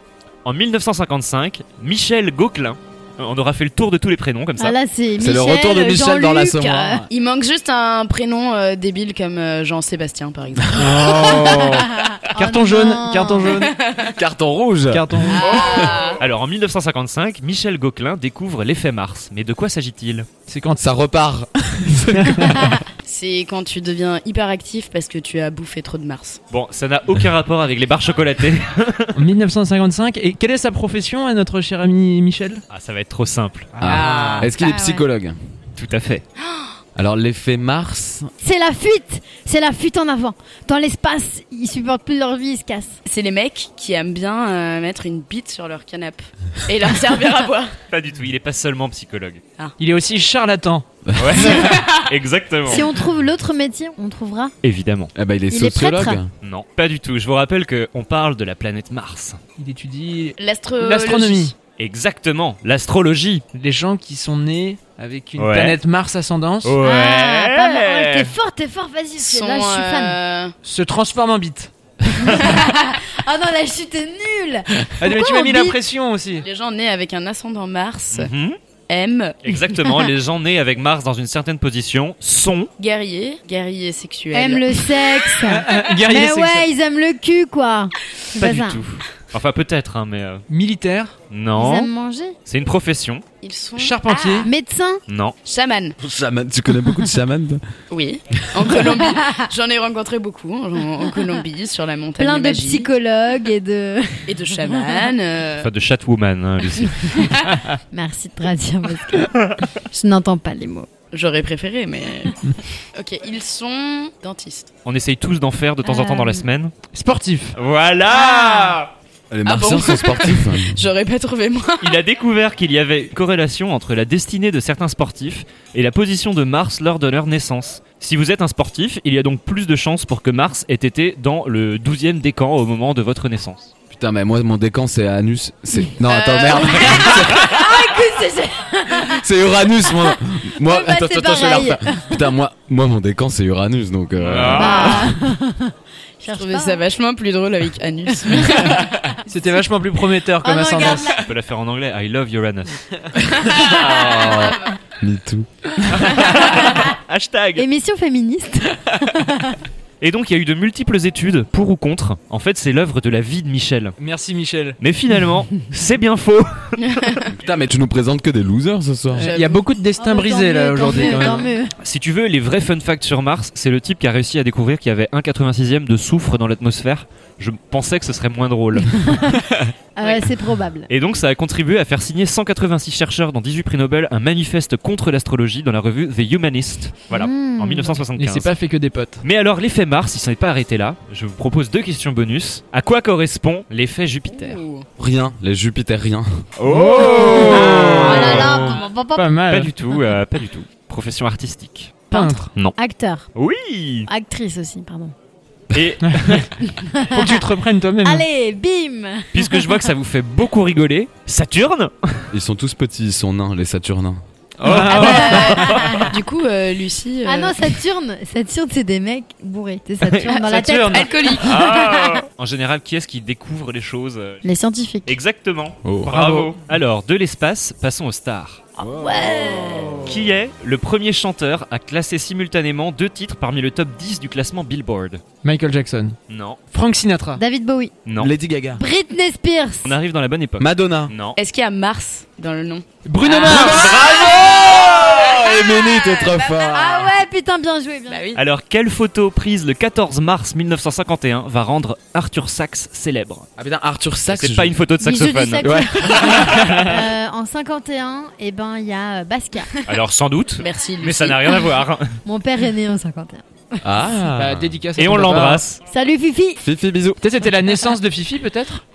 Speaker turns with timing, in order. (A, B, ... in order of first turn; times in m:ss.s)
0:00.4-0:04.8 A
0:04.6-0:07.0 B
0:05.2-0:07.1 C
0:07.1-0:11.3 D
0:10.8-0:13.7 E
0:10.8-0:11.6 C
0:12.2-0:13.6 B
0:13.6-0:14.2 D
0:14.1-0:15.9 C
0:14.9-0:15.5 E
0:15.3-0:16.2 D
0:16.2-0:20.3 A
0:20.5-0:20.8 E
0:20.8-0:22.8 C
0:22.1-0:22.5 E
0:23.0-0:26.4 D
0:26.5-0:29.2 A
0:29.2-0:32.6 E
0:32.7-0:33.7 A
0:33.7-0:34.5 E
0:33.8-0:35.4 C
0:33.8-0:34.5 D
0:34.5-0:35.0 B
0:35.8-0:36.2 A
0:36.4-0:36.7 D
0:37.0-0:38.3 C
0:38.4-0:43.0 B
0:43.0-0:47.8 D
0:47.9-0:49.4 A
0:49.8-0:50.9 E
0:51.1-0:51.4 C
0:51.2-0:52.9 A
0:52.7-0:54.5 B
0:54.6-0:55.1 A
0:55.2-0:56.3 C
0:55.5-0:56.2 B
0:56.4-0:59.4 A
0:59.6-1:01.6 E
1:00.4-1:01.5 D
1:01.8-1:03.4 A
1:03.5-1:06.8 E
1:05.4-1:05.8 A
1:06.6-1:08.3 A
1:06.8-1:10.2 B
1:09.2-1:10.6 D
1:10.6-1:11.7 E
1:12.2-1:15.8 B
1:15.0-1:16.5 E
1:16.4-1:18.3 D
1:18.1-1:18.6 A
1:18.9-1:19.6 D
1:19.4-1:22.7 A
1:22.8-1:24.9 D
1:24.3-1:28.8 B
1:25.5-1:26.7 E
1:28.4-1:30.4 A
1:30.5-1:31.2 E
1:31.3-1:31.9 A
1:31.6-1:32.4 B
1:32.5-1:33.2 A
1:33.4-1:34.5 D
1:33.8-1:34.5 E
1:34.4-1:35.0 B
1:35.1-1:35.4 A
1:35.4-1:36.0 D
1:36.0-1:37.6 C
1:37.9-1:42.9 D
1:42.2-1:45.0 B
1:44.3-1:45.7 D
1:45.6-1:47.3 A
1:46.8-1:47.3 B
1:47.9-1:49.3 B
1:49.3-1:49.6 A
1:49.9-1:50.9 B
1:51.1-1:54.7 D
1:54.8-1:56.8 A
1:55.8-1:56.4 B
1:56.9-1:57.6 E
1:57.6-1:58.9 A
1:58.1-1:58.8 D
1:59.3-2:00.8 C
1:59.4-2:02.0 D
2:01.8-2:13.7 A
2:13.9-2:17.7 C
2:16.0-2:17.5 D
2:17.3-2:19.2 B
2:18.9-2:25.1 C
2:20.0-2:22.2 B
2:24.2-2:25.1 A
2:24.5-2:26.8 B
2:26.3-2:28.9 D
2:29.3-2:31.2 E
2:30.4-2:31.3 B
2:31.2-2:32.8 A
2:33.3-2:36.1 C
2:33.8-2:34.7 D
2:36.0-2:37.6 A
2:37.6-2:39.6 B
2:40.0-2:44.0 A
2:44.0-2:44.8 E
2:44.8-2:47.2 A
2:46.8-2:47.3 D
2:47.3-2:49.3 C
2:49.2-2:51.5 E
2:49.2-2:49.6 D
2:50.0-2:51.7 B
2:51.8-2:59.4 A
2:59.0-2:59.4 B
3:00.0-3:00.9 B
3:00.9-3:08.5 A
3:07.1-3:08.0 B
3:08.2-3:09.2 E
3:09.2-3:14.6 A
3:14.3-3:14.9 D
3:15.0-3:16.5 C
3:16.6-3:18.8 A
3:16.7-3:19.7 E
3:17.1-3:19.3 B
3:19.5-3:22.0 A
3:22.1-3:22.5 E
3:22.1-3:23.3 B
3:23.4-3:24.1 A
3:24.1-3:25.1 B
3:25.7-3:26.6 A
3:26.0-3:26.5 E
3:26.7-3:27.4 B
3:27.1-3:28.3 E
3:28.0-3:29.8 B
3:29.3-3:32.3 A
3:32.3-3:34.2 C
3:34.6-3:35.5 E
3:34.6-3:36.1 A
3:34.7-3:37.7 D
3:34.9-3:36.1 B
3:37.2-3:42.2 B
3:40.1-3:41.1 E
3:40.9-3:41.7 D
3:41.4-3:44.4 A
3:44.4-3:45.2 B
3:45.1-3:48.6 A
3:45.8-3:46.1 C
3:46.0-3:46.6 E
3:48.9-3:50.1 C
3:49.0-3:49.9 B
3:50.0-3:55.2 A
3:55.4-3:56.2 E
3:56.3-3:56.6 A
3:56.7-3:57.4 E
3:57.4-3:57.9 B
3:58.0-3:58.3 A
3:58.2-3:58.8 C
3:58.8-3:59.9 B
3:59.8-4:01.4 A
4:00.6-4:01.1 C
4:01.4-4:06.7 D
4:03.0-4:03.9 E
4:03.4-4:04.4 A
4:03.4-4:07.1 C
4:06.6-4:08.2 B
4:08.1-4:08.4 D
4:08.4-4:13.5 A
4:13.6-4:14.8 C
4:14.3-4:15.7 A
4:15.0-4:19.7 B
4:15.6-4:16.8 C
4:16.2-4:16.8 A
4:19.9-4:22.2 A
4:20.6-4:21.7 D
4:22.2-4:23.8 B
4:23.8-4:24.8 C
4:24.3-4:25.6 E
4:25.0-4:25.8 A
4:25.9-4:26.6 B
4:26.6-4:27.2 C
4:27.2-4:28.8 E